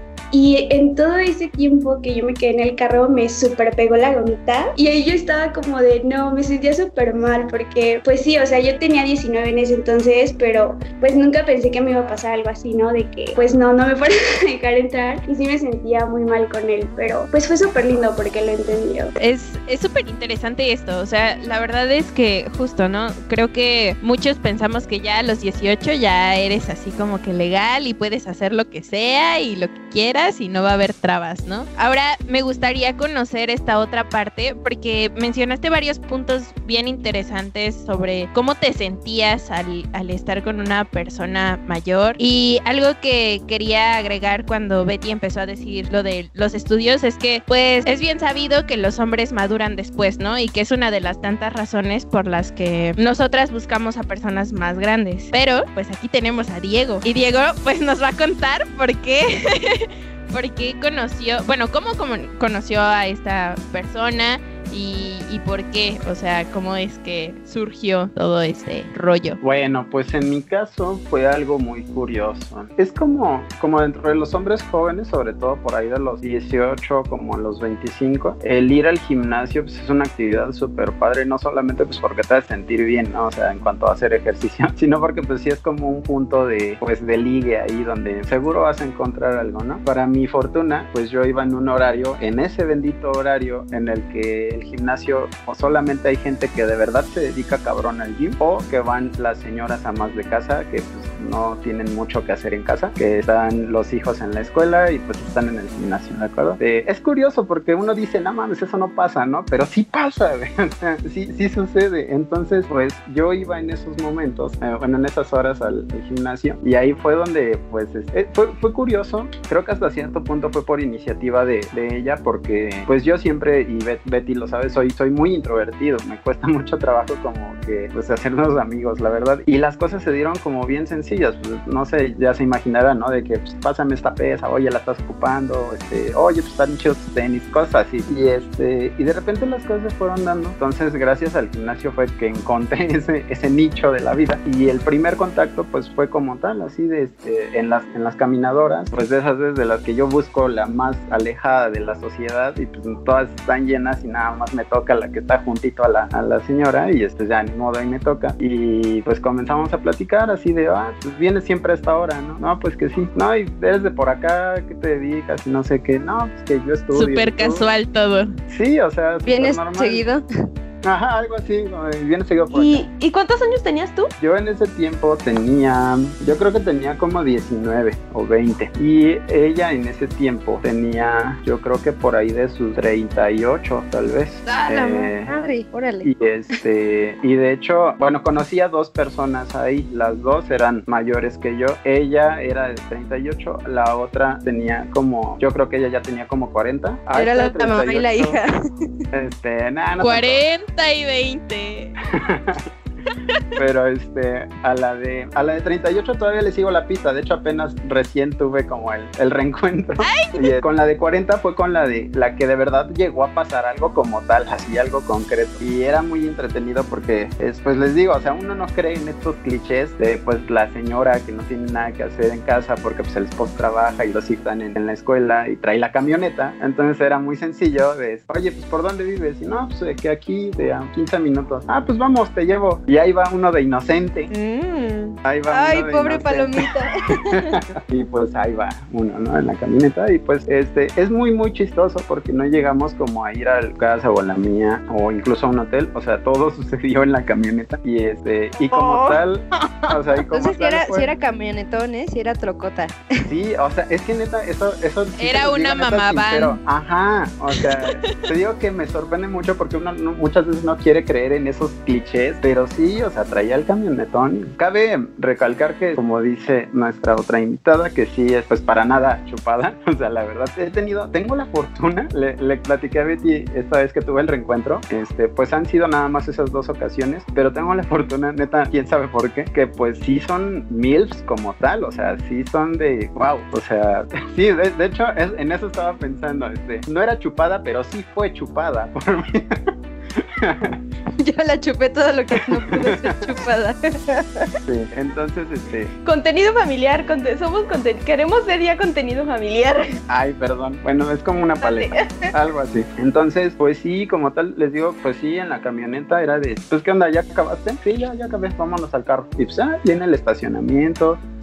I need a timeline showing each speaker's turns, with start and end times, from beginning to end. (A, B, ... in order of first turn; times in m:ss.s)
0:00.3-0:19.1 A
0:19.2-1:09.4 B
1:09.4-2:47.7 C
2:46.9-2:48.3 B
2:48.5-2:50.0 C
2:49.3-2:50.2 D
2:50.8-2:52.9 C
2:52.5-2:54.1 E
2:54.2-3:05.3 C
3:04.5-3:06.1 D
3:06.0-3:18.4 C
3:17.1-3:18.5 D
3:19.1-3:20.4 C
3:20.0-3:22.0 B
3:22.1-3:22.7 C
3:23.6-3:54.3 C
3:30.0-3:30.6 B
3:54.3-3:57.6 D
3:55.2-3:56.7 C
3:57.3-4:11.1 C
4:08.7-4:09.2 D
4:10.3-4:13.3 D
4:13.3-4:50.8 C
4:15.2-4:16.6 B
4:51.2-4:54.5 D
4:52.5-4:53.2 C
4:54.6-4:55.9 C
4:56.0-5:00.0 E
5:00.1-5:11.2 C
5:01.6-5:02.3 E